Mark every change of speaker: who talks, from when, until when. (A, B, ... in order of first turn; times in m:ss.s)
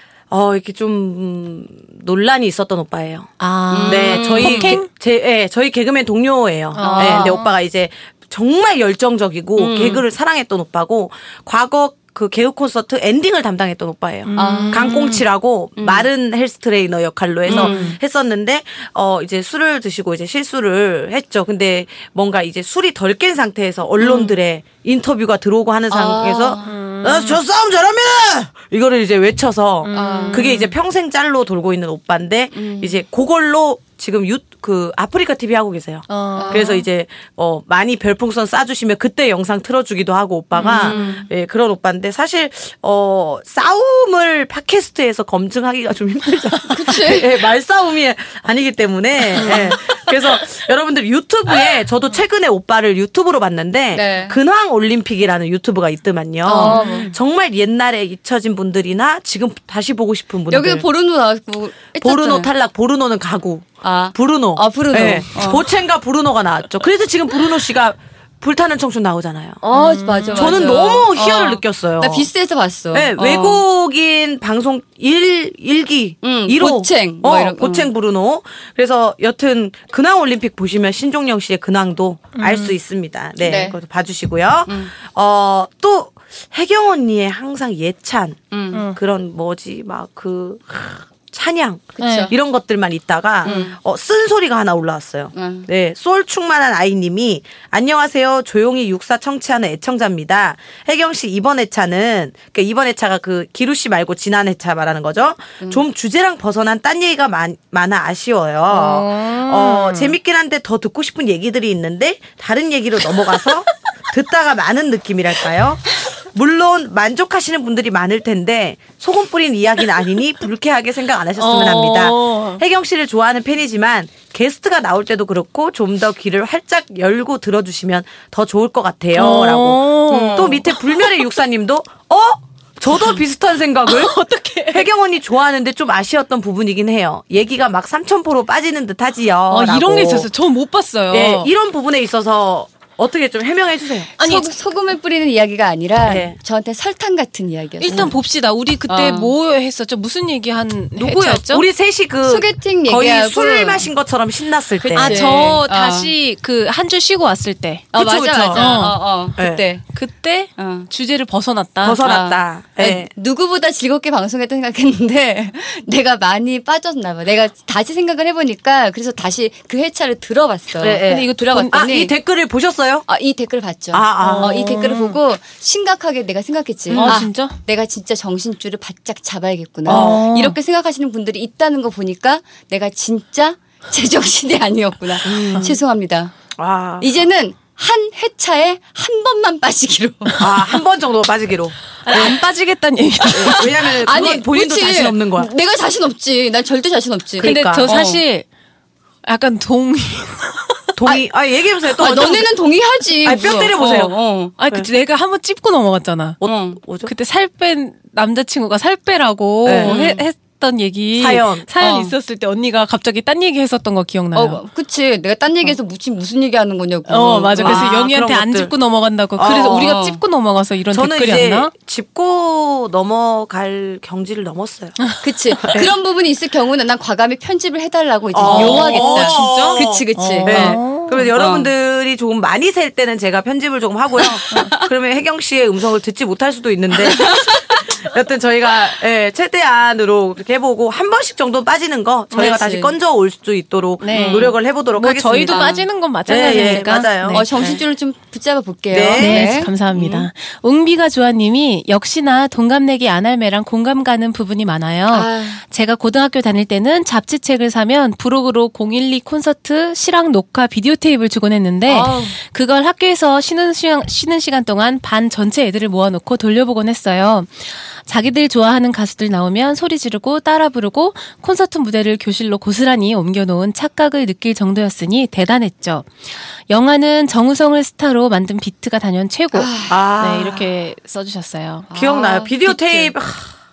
0:00.3-0:03.3 A
0:03.4-0:04.9 B
0:03.7-0:04.8 C
0:03.9-1:00.9 A
0:06.8-0:07.5 B
0:06.8-0:07.4 C
0:09.6-0:10.0 C
0:14.2-0:15.2 B
0:14.4-0:14.9 C
0:15.8-0:16.1 C
0:17.5-0:18.0 C
0:17.5-0:18.0 B
0:24.0-0:24.3 C
0:25.9-0:26.8 C
0:26.6-0:27.4 B
0:29.8-0:30.6 B
0:29.9-0:30.7 C
0:32.5-0:33.0 C
0:36.1-0:36.8 B
0:36.4-0:36.8 C
0:40.6-0:41.3 C
0:40.6-0:41.1 B
0:46.7-0:47.4 C
0:49.4-0:49.8 B
0:53.9-0:54.4 C
0:56.4-0:57.1 C
0:56.6-0:57.2 B
1:00.5-1:02.5 C
1:02.0-1:09.6 A
1:03.8-1:05.6 C
1:09.6-1:13.6 C
1:09.7-1:10.7 B
1:10.4-1:12.3 A
1:12.9-1:28.4 A
1:16.2-1:17.9 C
1:22.4-1:22.7 B
1:23.4-1:23.8 C
1:24.7-1:24.9 C
1:28.5-1:28.9 C
1:28.9-2:14.2 A
1:32.0-1:32.4 C
1:32.0-1:32.3 B
1:33.4-1:33.8 C
1:35.4-1:35.7 C
1:48.7-1:50.1 B
2:01.4-2:02.6 B
2:09.2-2:11.3 B
2:13.9-2:14.9 B
2:14.7-2:20.3 A
2:19.5-2:21.5 B
2:21.1-2:24.1 A
2:24.2-2:28.1 C
2:24.2-2:24.5 B
2:26.0-2:26.4 A
2:27.8-2:31.6 B
2:28.9-2:29.3 C
2:31.0-2:35.4 A
2:32.3-2:33.9 C
2:34.8-2:36.1 C
2:35.0-2:38.0 B
2:37.9-2:39.8 C
2:38.0-2:38.8 A
2:38.5-2:39.0 B
2:39.4-2:39.6 A
2:39.9-2:42.0 B
2:40.6-2:40.9 C
2:41.8-2:43.1 A
2:42.0-2:52.1 C
2:50.8-2:53.0 A
2:51.1-2:51.8 B
2:53.1-3:06.3 C
2:53.9-2:55.0 A
2:54.2-2:55.1 B
2:56.9-2:57.3 A
2:57.0-2:57.6 B
2:59.9-3:00.6 B
2:59.9-3:00.3 A
3:05.2-3:05.7 A
3:05.4-3:05.7 B
3:06.6-3:07.1 A
3:07.0-3:10.5 C
3:10.4-3:12.4 A
3:12.0-3:13.8 B
3:13.3-3:18.2 C
3:13.3-3:15.5 A
3:17.4-3:18.0 A
3:17.4-3:18.4 B
3:19.2-3:20.9 B
3:21.0-3:22.5 A
3:21.9-3:24.6 C
3:23.2-3:24.1 A
3:24.6-3:26.4 B
3:26.4-3:27.1 A
3:26.4-3:26.8 C
3:27.1-3:34.6 B
3:29.6-3:30.1 A
3:29.8-3:30.2 C
3:31.2-3:31.7 A
3:31.8-3:32.1 C
3:34.3-3:37.9 C
3:37.1-3:41.7 B
3:37.6-3:38.7 A
3:39.4-3:39.9 A
3:39.5-3:40.2 C
3:40.9-3:45.0 A
3:45.2-3:51.6 C
3:45.6-3:45.9 A
3:48.3-4:05.7 A
3:48.4-3:51.7 B
3:54.2-3:54.9 C
3:57.1-3:58.0 C
4:02.3-4:02.9 C
4:02.4-4:02.6 B
4:04.0-4:07.5 B
4:04.1-4:04.6 C
4:05.5-4:05.9 C
4:06.3-4:07.8 A
4:07.3-4:09.7 C
4:08.9-4:10.3 A
4:09.1-4:41.9 B
4:15.1-4:15.6 C
4:21.9-4:22.4 C
4:39.5-4:40.0 C
4:39.9-4:40.7 A
4:41.9-4:43.1 C
4:41.9-4:43.5 A